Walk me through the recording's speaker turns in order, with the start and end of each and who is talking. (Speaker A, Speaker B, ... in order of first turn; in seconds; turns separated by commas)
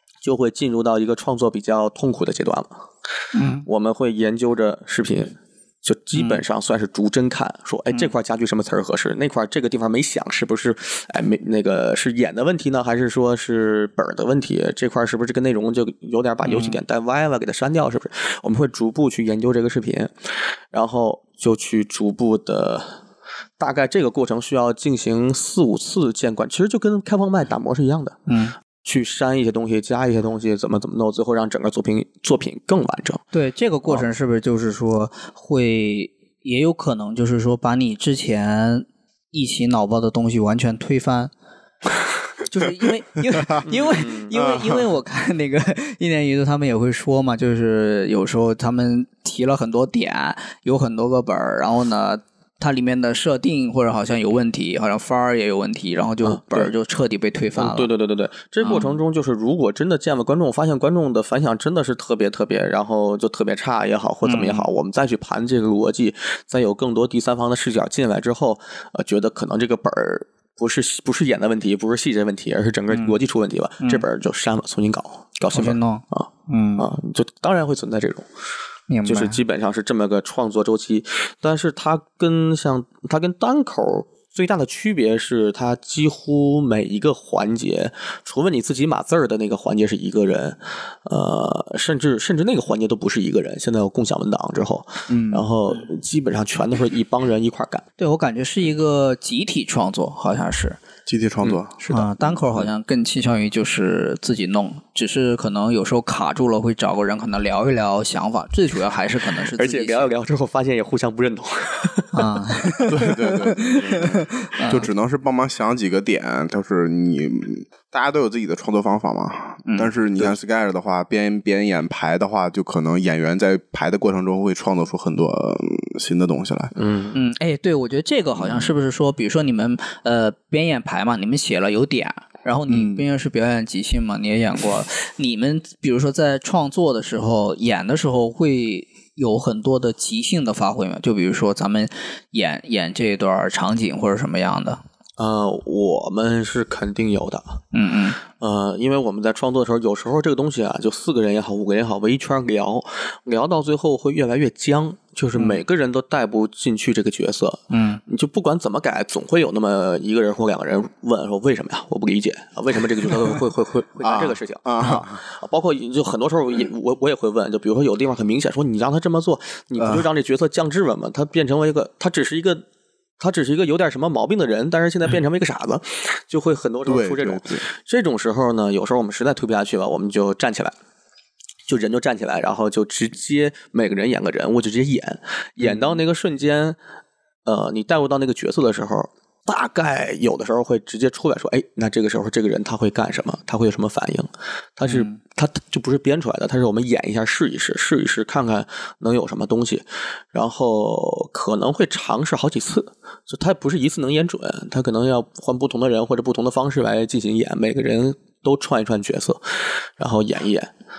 Speaker A: 0.2-2.8, Speaker B: 3.3-3.6, Speaker A: 3.6-23.0, Speaker B: 6.1-6.4, Speaker B: 16.4-16.8, Speaker A: 23.6-28.2, Speaker B: 28.3-28.6, Speaker A: 28.8-33.2, Speaker B: 33.3-41.3, Speaker B: 42.5-57.9, Speaker C: 43.3-43.6, Speaker A: 43.7-44.3, Speaker C: 44.3-44.8, Speaker A: 56.2-56.7, Speaker A: 57.5-78.3, Speaker B: 58.6-59.0, Speaker B: 64.2-64.7, Speaker B: 75.5-76.9, Speaker B: 78.9-79.4, Speaker A: 79.0-97.9, Speaker C: 95.1-95.4, Speaker B: 98.0-100.8, Speaker C: 101.0-102.6, Speaker B: 101.9-110.1, Speaker A: 109.4-112.9, Speaker B: 112.1-114.9, Speaker C: 112.9-126.7, Speaker A: 113.8-114.1, Speaker A: 126.7-127.2, Speaker B: 127.1-144.8, Speaker C: 128.4-128.7, Speaker C: 132.7-133.0, Speaker A: 145.2-147.6, Speaker B: 147.7-148.2, Speaker A: 148.3-172.6, Speaker B: 155.3-155.6, Speaker B: 157.7-158.0, Speaker C: 164.0-165.2, Speaker C: 169.8-170.1, Speaker A: 173.2-180.7, Speaker C: 176.8-177.7, Speaker A: 181.7-186.8, Speaker A: 187.4-210.7, Speaker B: 194.8-195.1